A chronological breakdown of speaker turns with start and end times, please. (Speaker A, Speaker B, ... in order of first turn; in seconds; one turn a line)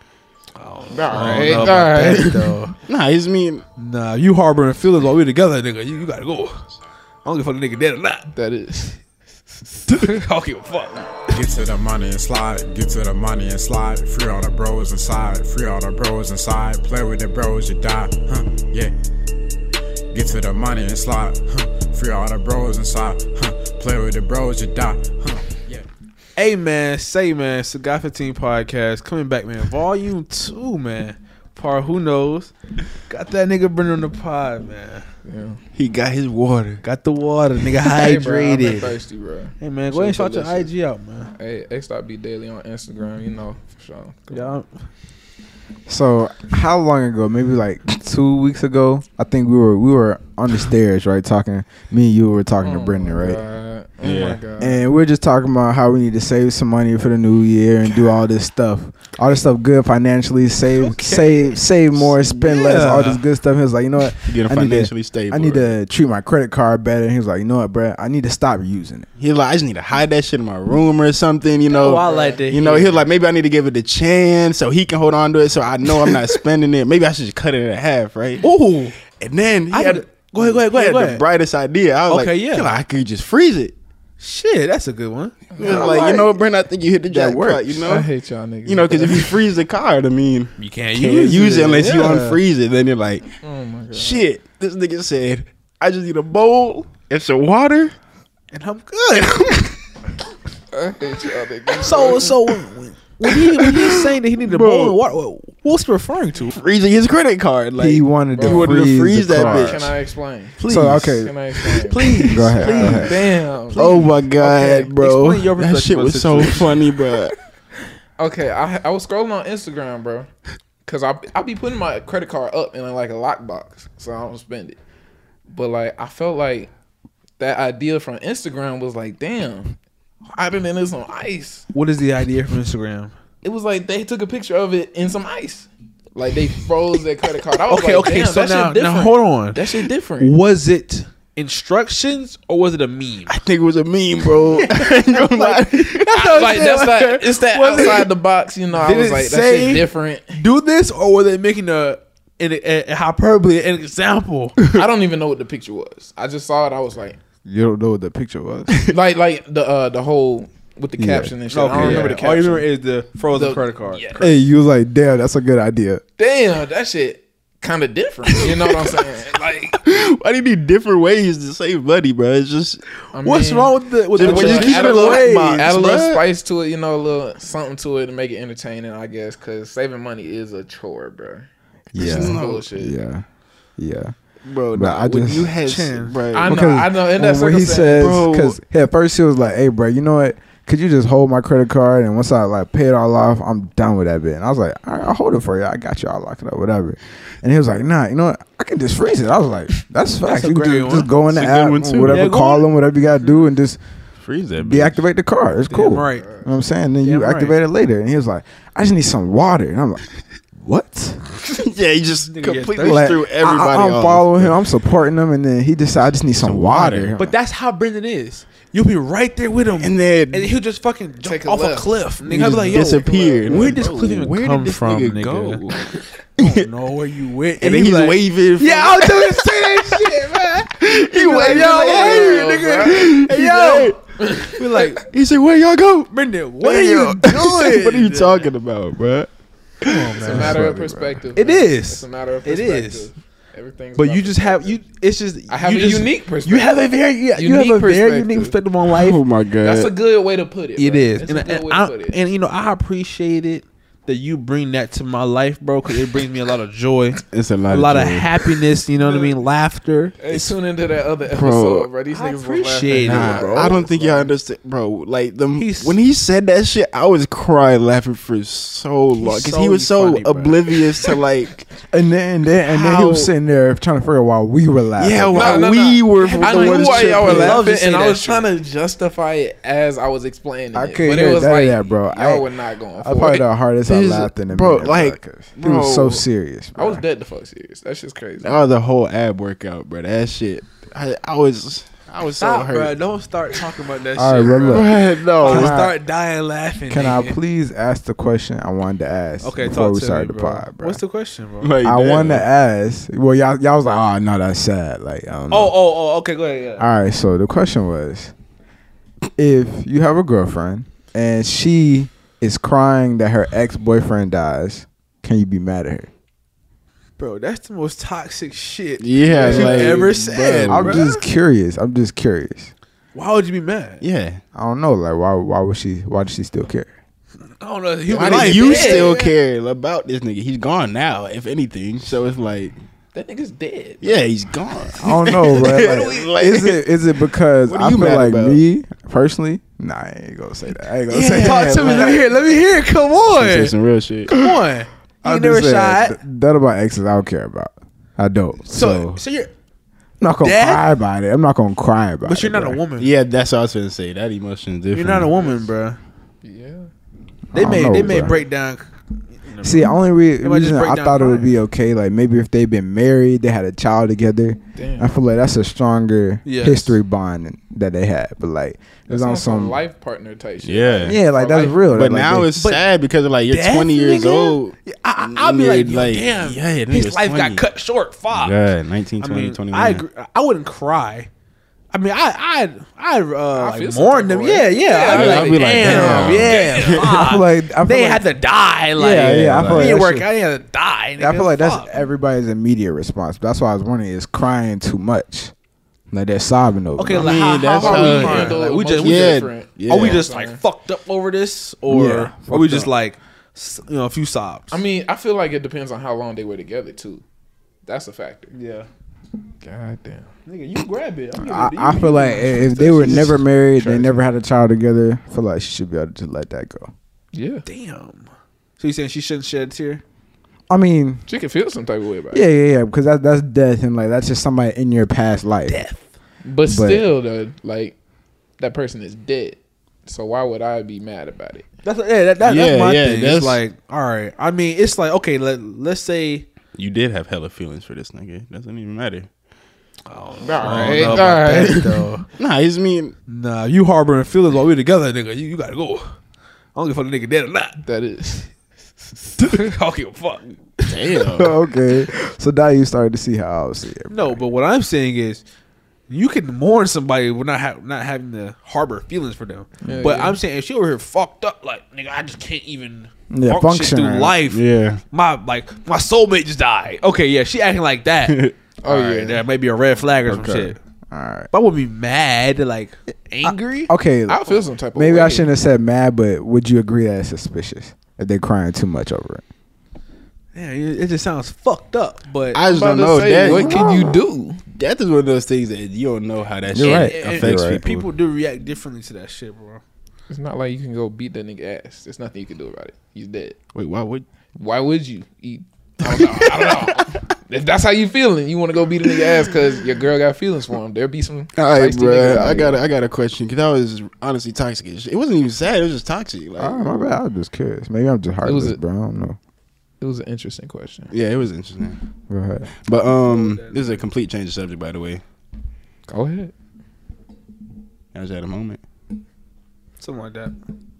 Speaker A: 0.6-2.7
Speaker B: 0.9-2.4
Speaker C: 1.1-3.6
Speaker A: 3.8-6.7
Speaker A: 7.2-8.3
Speaker B: 8.3-9.0
Speaker A: 9.9-11.4
Speaker D: 11.3-18.9
Speaker D: 20.1-25.8
Speaker A: 26.4-32.5
Speaker A: 33.1-35.0
Speaker B: 35.2-35.6
Speaker C: 35.8-36.8
Speaker A: 36.8-38.9
Speaker B: 37.9-40.7
Speaker A: 39.6-41.3
Speaker B: 41.4-44.6
Speaker A: 44.3-44.9
Speaker E: 45.9-53.4
Speaker B: 52.6-54.8
Speaker C: 54.0-54.4
Speaker E: 54.6-69.1
Speaker A: 60.7-61.6
Speaker C: 62.0-63.1
Speaker A: 62.3-63.2
Speaker C: 64.2-65.7
Speaker C: 69.2-78.5
Speaker A: 71.7-73.1
Speaker B: 72.0-72.4
Speaker A: 78.4-79.0
Speaker C: 79.0-83.7
Speaker A: 79.7-81.2
Speaker A: 82.1-82.8
Speaker A: 84.2-85.9
Speaker B: 85.6-86.3
Speaker C: 85.6-88.1
Speaker E: 87.1-87.8
Speaker B: 87.8-89.5
Speaker C: 88.6-93.3
Speaker A: 90.6-92.4
Speaker B: 93.4-94.3
Speaker C: 93.9-98.0
Speaker A: 98.5-99.7
Speaker B: 100.7-102.3
Speaker A: 101.8-106.5
Speaker C: 103.4-105.0
Speaker C: 106.5-109.9
Speaker E: 107.8-109.9
Speaker B: 108.3-110.6
Speaker A: 110.6-111.1
Speaker E: 110.6-111.3
Speaker B: 111.1-113.9
Speaker A: 111.8-116.8
Speaker E: 112.2-113.2
Speaker C: 113.7-117.3
Speaker B: 118.2-120.3
Speaker B: 120.8-124.8
Speaker B: 125.5-126.7
Speaker B: 127.4-129.8
Speaker B: 130.3-131.6
Speaker A: 131.7-133.1
Speaker B: 133.4-140.4
Speaker A: 137.7-143.4
Speaker C: 143.3-146.3
Speaker A: 145.4-148.1
Speaker B: 146.1-150.4
Speaker A: 148.7-154.6
Speaker B: 154.7-157.2
Speaker E: 157.4-158.8
Speaker B: 158.9-162.7
Speaker E: 161.0-162.1
Speaker A: 161.5-164.2
Speaker B: 163.3-164.4
Speaker E: 164.2-166.0
Speaker B: 166.2-169.8
Speaker C: 169.8-172.9
Speaker B: 173.1-182.9
Speaker A: 173.2-176.0
Speaker C: 174.1-176.2
Speaker C: 181.9-182.7
Speaker E: 181.9-183.2
Speaker E: 183.8-184.1
Speaker C: 184.4-186.5
Speaker E: 184.7-185.5
Speaker A: 185.6-186.2
Speaker B: 186.3-188.2
Speaker E: 186.4-203.8
Speaker C: 188.0-188.6
Speaker A: 200.2-201.1
Speaker C: 201.3-202.3
Speaker A: 202.0-202.7
Speaker C: 204.2-205.1
Speaker E: 204.6-210.0
Speaker B: 205.7-206.5
Speaker A: 205.7-206.3
Speaker A: 207.0-207.6
Speaker E: 210.6-211.3
Speaker C: 211.5-214.6
Speaker A: 212.3-213.2
Speaker E: 212.8-217.3
Speaker C: 216.3-217.3
Speaker A: 217.2-225.6
Speaker C: 219.8-220.6
Speaker B: 221.2-223.5
Speaker C: 222.2-226.7
Speaker A: 226.4-235.1
Speaker C: 227.6-234.0
Speaker B: 231.1-233.1
Speaker B: 234.2-234.5
Speaker C: 235.1-239.3
Speaker A: 236.1-238.5
Speaker C: 239.8-240.1
Speaker A: 239.8-240.6
Speaker B: 240.2-244.8
Speaker E: 240.2-241.2
Speaker A: 241.3-243.1
Speaker A: 243.9-249.2
Speaker B: 245.5-248.6
Speaker C: 248.9-249.9
Speaker B: 249.6-252.2
Speaker A: 250.8-260.5
Speaker C: 257.3-258.3
Speaker B: 259.0-259.4
Speaker B: 260.2-264.3
Speaker C: 261.3-261.9
Speaker A: 262.1-263.7
Speaker C: 262.9-271.8
Speaker A: 265.5-266.0
Speaker A: 269.2-270.6
Speaker E: 271.9-275.6
Speaker C: 272.6-273.3
Speaker C: 275.0-277.6
Speaker B: 275.3-283.5
Speaker A: 276.2-278.4
Speaker E: 280.7-287.0
Speaker C: 283.9-286.2
Speaker B: 286.8-288.5
Speaker C: 288.4-293.0
Speaker A: 292.4-297.4
Speaker E: 294.1-295.9
Speaker C: 294.6-295.8
Speaker E: 296.9-301.0
Speaker A: 299.4-301.7
Speaker C: 301.6-302.5
Speaker E: 301.8-305.7
Speaker A: 305.5-306.8
Speaker E: 306.8-308.3
Speaker E: 309.4-316.1
Speaker A: 317.2-321.2
Speaker C: 319.0-321.1
Speaker E: 319.4-320.1
Speaker E: 320.7-322.7
Speaker A: 323.1-324.0
Speaker C: 324.0-324.4
Speaker E: 324.5-326.9
Speaker A: 327.6-329.1
Speaker C: 328.1-332.7
Speaker B: 328.2-329.3
Speaker B: 333.1-334.1
Speaker C: 334.0-336.8
Speaker E: 335.0-342.2
Speaker B: 335.7-336.1
Speaker C: 337.6-338.6
Speaker C: 341.1-342.3
Speaker A: 341.2-343.8
Speaker C: 343.3-344.4
Speaker A: 344.3-346.2
Speaker E: 345.2-349.2
Speaker A: 348.6-349.5
Speaker E: 350.2-352.8
Speaker A: 350.4-350.9
Speaker A: 352.2-353.1
Speaker C: 353.0-355.4
Speaker A: 354.9-356.0
Speaker B: 356.4-356.9
Speaker E: 357.5-358.4
Speaker A: 357.5-359.9
Speaker E: 359.6-369.8
Speaker A: 360.4-361.6
Speaker B: 364.7-365.1
Speaker A: 366.4-367.0
Speaker B: 369.1-372.1
Speaker C: 370.6-371.2
Speaker E: 371.0-372.5
Speaker C: 371.9-377.6
Speaker A: 372.6-372.9
Speaker A: 373.5-378.6
Speaker C: 378.3-380.0
Speaker A: 379.2-381.3
Speaker A: 381.9-391.9
Speaker B: 383.5-386.5
Speaker C: 385.0-387.3
Speaker E: 385.8-388.3
Speaker E: 389.0-390.3
Speaker C: 389.0-390.0
Speaker E: 391.2-395.5
Speaker E: 396.1-397.6
Speaker A: 397.0-404.8
Speaker C: 397.1-400.3
Speaker B: 397.6-400.6
Speaker E: 401.9-402.9
Speaker B: 404.7-407.2
Speaker B: 407.9-408.5
Speaker A: 408.5-408.9
Speaker B: 409.6-410.3
Speaker A: 410.4-413.3
Speaker E: 411.3-416.9
Speaker B: 412.5-414.2
Speaker B: 417.3-417.6
Speaker A: 417.6-420.0
Speaker E: 420.7-421.2
Speaker B: 421.3-422.4
Speaker E: 422.3-425.8
Speaker A: 425.7-426.0
Speaker B: 426.4-427.9
Speaker E: 426.6-427.1
Speaker B: 428.6-431.6
Speaker A: 431.8-436.5
Speaker C: 432.4-433.6
Speaker C: 436.8-439.3
Speaker A: 440.1-442.2
Speaker B: 440.4-441.9
Speaker C: 440.6-441.8
Speaker C: 442.4-443.1
Speaker A: 443.3-446.2
Speaker A: 446.7-447.8
Speaker B: 447.8-448.5
Speaker A: 449.4-450.9
Speaker C: 450.8-451.5
Speaker E: 451.3-454.4
Speaker A: 454.1-455.4
Speaker A: 456.1-470.8
Speaker B: 459.8-460.4
Speaker E: 463.3-464.4
Speaker C: 464.5-465.0
Speaker B: 468.8-469.4
Speaker E: 470.3-471.5
Speaker A: 471.5-473.9
Speaker E: 473.4-479.4
Speaker B: 474.3-475.5
Speaker A: 480.5-482.6
Speaker C: 482.5-483.9
Speaker B: 482.6-484.6
Speaker E: 483.4-484.1
Speaker C: 484.7-488.1
Speaker E: 486.7-487.8
Speaker A: 486.8-489.8
Speaker B: 490.3-493.6
Speaker C: 493.7-494.2
Speaker B: 494.6-502.8
Speaker C: 496.1-497.2
Speaker C: 501.6-506.9
Speaker E: 506.6-509.4
Speaker B: 508.4-508.8
Speaker B: 510.0-511.1
Speaker C: 511.1-512.0
Speaker E: 512.3-512.7
Speaker C: 512.8-515.2
Speaker A: 513.2-514.0
Speaker B: 516.1-516.5
Speaker C: 518.1-518.8
Speaker A: 520.0-520.5